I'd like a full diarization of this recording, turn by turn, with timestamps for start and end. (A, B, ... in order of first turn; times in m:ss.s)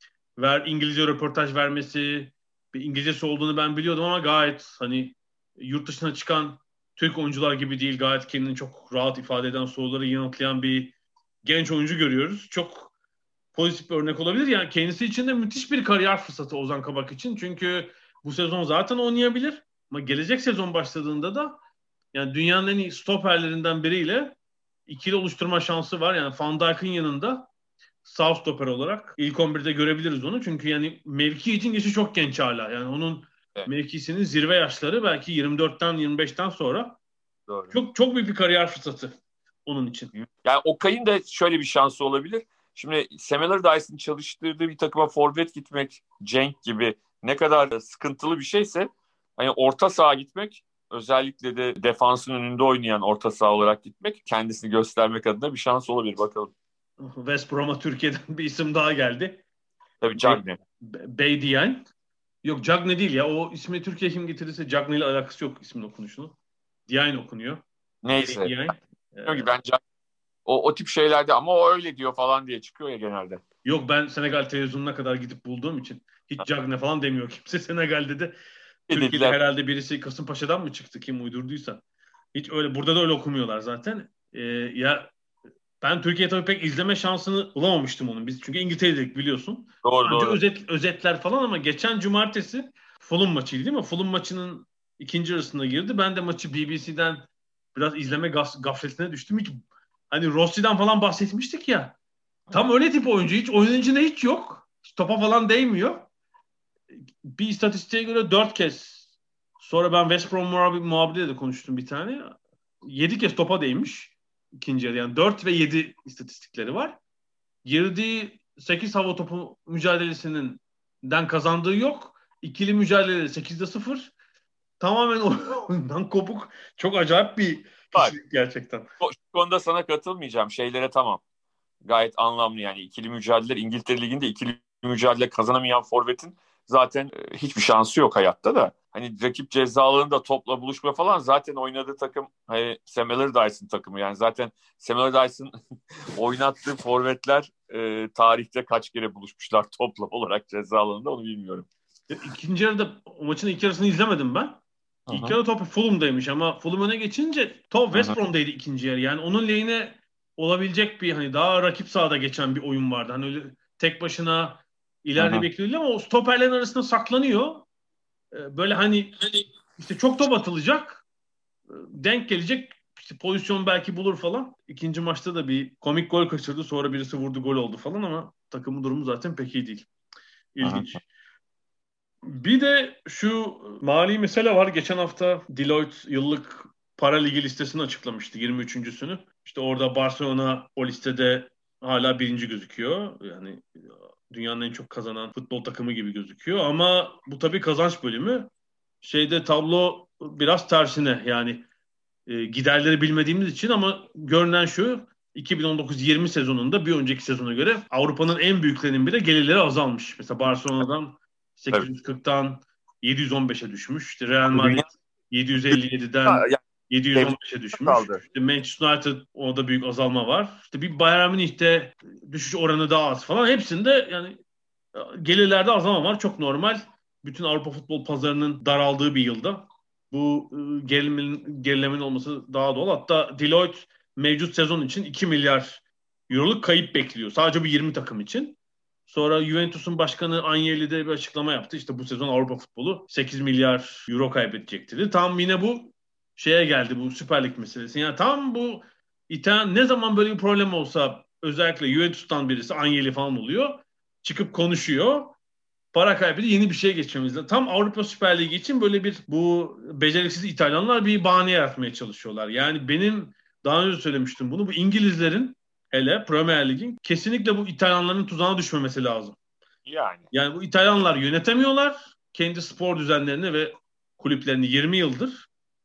0:00.4-0:12.9 A
0:13.5-0:21.6 A
0:22.1-0:24.4 A
0:24.9-0:27.5 A
0:28.0-0:37.0 A
0:37.5-0:37.8 B
0:37.7-0:39.2 A
0:39.7-0:40.1 A
0:40.1-0:56.5 B
0:57.0-0:59.4 A
1:00.0-1:00.6 B
1:00.2-1:01.9 A
1:02.4-1:06.3 A
1:06.9-1:07.6 A
1:08.0-1:08.6 B
1:08.1-1:09.5 A
1:09.3-1:09.8 B
1:10.5-1:13.4 B
1:13.6-1:18.4 A
1:18.9-1:19.4 B
1:18.9-1:21.8 A
1:22.4-1:25.1 A
1:25.8-1:39.6 A
1:29.8-1:30.4 B
1:40.1-1:42.0 A
1:42.5-1:46.1 A
1:47.3-1:57.0 A
1:57.6-2:04.1 A
2:04.8-2:08.9 A
2:09.0-2:11.2 B
2:11.8-2:25.5 B
2:26.2-2:31.7 B
2:32.1-2:47.7 A
2:35.1-2:35.4 B
2:45.2-2:45.5 B
2:48.3-2:51.0 A
2:51.7-2:59.9 A
3:00.6-3:01.0 A
3:00.6-3:00.9 B
3:02.2-3:13.7 A
3:14.3-3:18.5 A
3:19.0-3:21.6 A
3:22.3-3:44.4 A
3:34.5-3:34.9 B
3:36.3-3:36.6 B
3:37.1-3:38.2 B
3:45.0-4:15.4 A
4:15.9-4:29.4 A
4:29.9-4:30.3 B
4:30.3-4:35.5 A